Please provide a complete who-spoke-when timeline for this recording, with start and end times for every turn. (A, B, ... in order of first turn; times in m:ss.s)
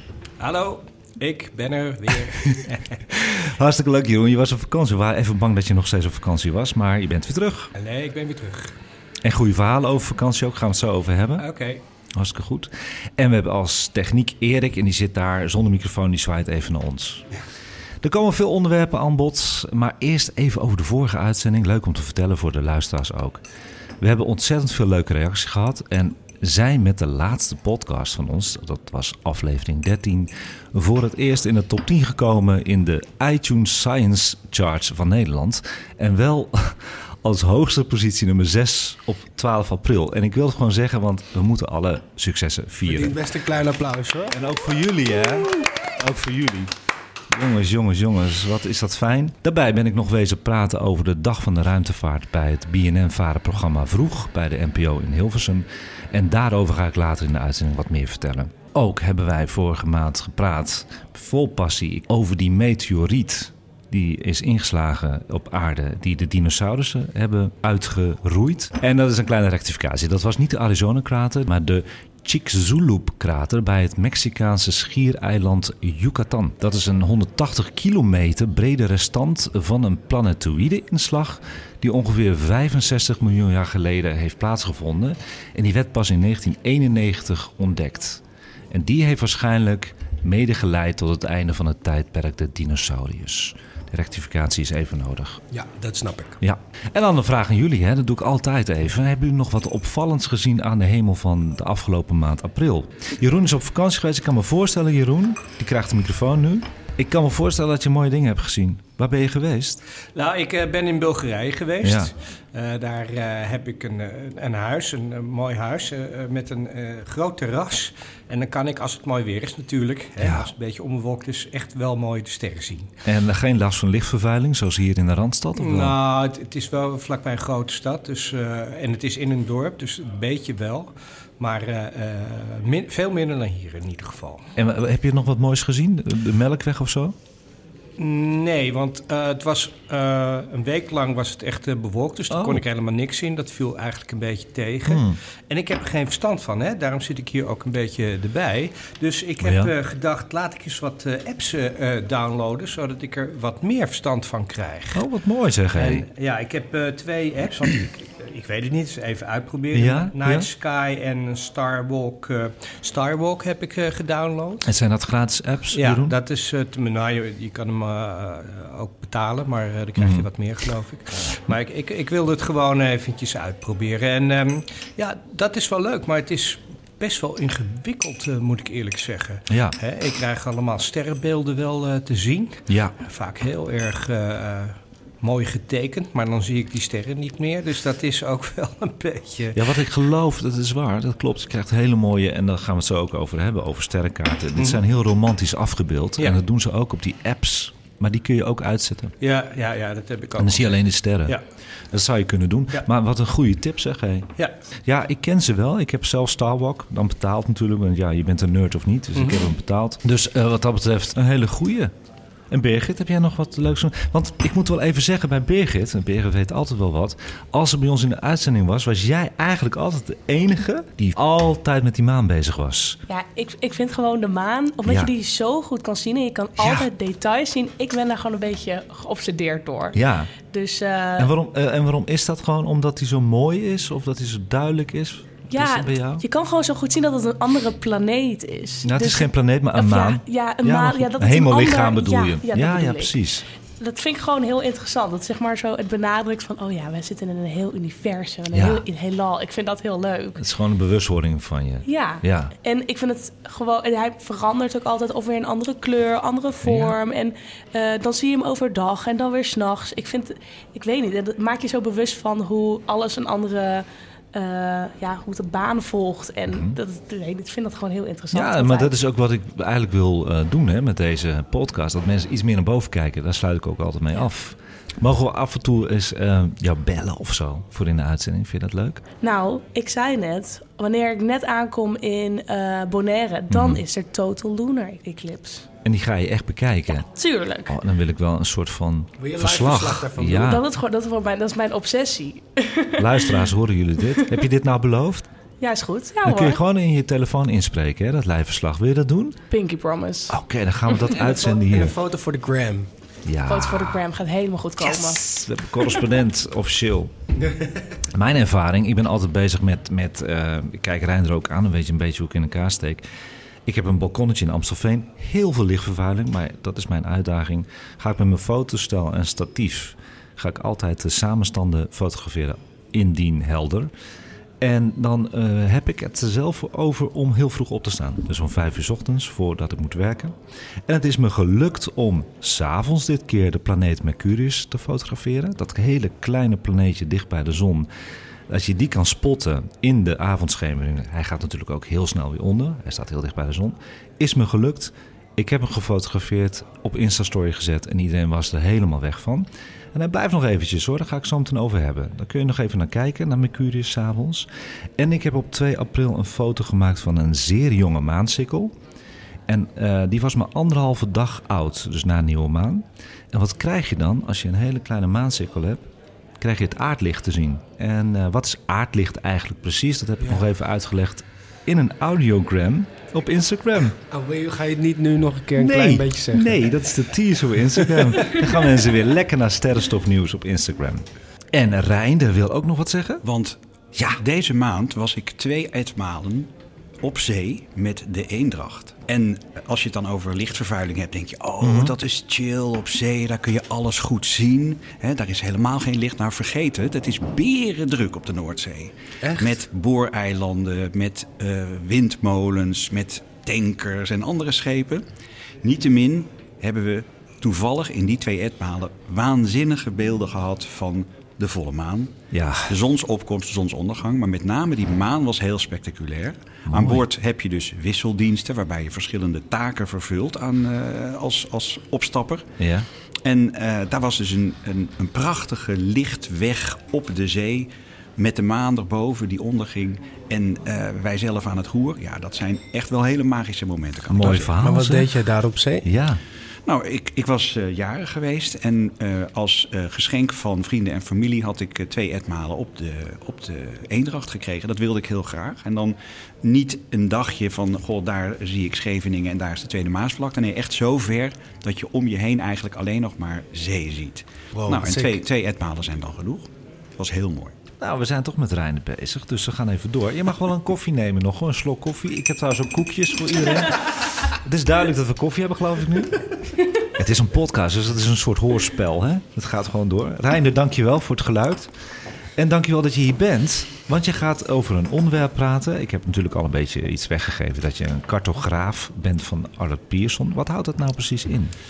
0:00.4-0:03.0 A
0:03.1-0:07.7 B
0:07.8-0:08.8 A
0:09.2-0:11.5 B
0:11.4-0:11.8 A
0:12.2-0:17.3 B
0:18.0-0:23.4 B
0:24.0-0:43.2 B
0:42.8-0:44.4 C
0:44.3-0:46.7 B
0:47.3-1:35.4 B
1:35.5-1:36.4 C
1:36.4-1:49.8 B
1:50.2-2:02.9 A
1:51.8-1:52.1 B
2:00.2-2:00.5 B
2:03.0-2:06.0 B
2:05.5-2:14.4 A
2:14.6-2:17.2 B
2:18.0-2:35.1 A
2:22.3-2:22.6 B
2:24.8-2:25.2 B
2:29.4-2:29.7 B
2:34.9-2:36.1 B
2:35.8-2:44.7 A
2:39.7-2:40.5 B
2:44.7-2:46.2 B
2:45.8-3:09.6 A
2:50.0-2:50.3 B
2:59.5-2:59.8 B
3:02.7-3:03.0 B
3:09.5-3:19.1 B
3:14.5-3:14.8 A
3:19.2-3:21.4 A
3:20.4-3:21.4 B
3:21.9-3:24.3 B
3:24.8-3:31.9 B
3:29.2-3:29.5 A
3:32.5-3:43.0 B
3:43.1-3:51.3 D
3:44.8-3:45.1 B
3:46.6-3:46.9 B
3:49.9-3:50.3 B
3:51.2-3:56.2 B
3:55.5-4:03.1 D
3:58.8-4:03.4 B
4:03.8-4:10.4 D
4:08.5-4:08.8 B
4:10.4-4:12.5 B
4:11.8-4:28.9 D
4:16.6-4:17.0 B
4:26.5-4:26.8 B
4:28.3-4:39.0 B
4:39.2-4:45.7 D
4:43.5-4:43.8 B
4:45.8-4:47.1 B
4:47.0-4:47.8 D
4:47.6-4:50.6 B
4:49.2-4:50.6 C
4:50.3-4:53.4 D
4:53.0-4:55.3 B
4:55.6-4:56.6 D
4:56.2-4:59.4 B
4:59.5-5:00.4 D
5:00.3-5:02.0 B
5:01.2-5:02.9 C
5:03.2-5:04.0 B
5:03.5-5:05.2 D
5:04.8-5:07.1 B
5:08.1-5:13.0 B
5:13.6-5:23.9 B
5:24.6-5:30.4 B
5:30.9-5:37.9 B
5:38.5-5:54.5 B
5:55.0-5:58.7 B
5:59.5-6:05.9 B
6:06.4-6:14.0 B
6:14.1-6:16.6 C
6:15.6-6:23.2 B
6:17.8-6:18.4 C
6:23.2-6:23.6 E
6:24.1-6:26.5 E
6:27.0-6:45.0 E
6:31.6-6:32.0 B
6:39.2-6:39.6 C
6:45.6-6:52.2 E
6:52.3-6:52.8 B
6:52.7-7:02.5 E
6:56.7-6:57.0 B
7:02.6-7:02.9 B
7:03.2-7:14.6 E
7:14.1-7:15.2 B
7:14.6-7:15.9 C
7:15.8-7:16.2 B
7:16.7-7:37.6 E
7:34.5-7:35.2 C
7:37.8-7:46.3 B
7:46.9-7:51.7 B
7:52.4-8:01.5 B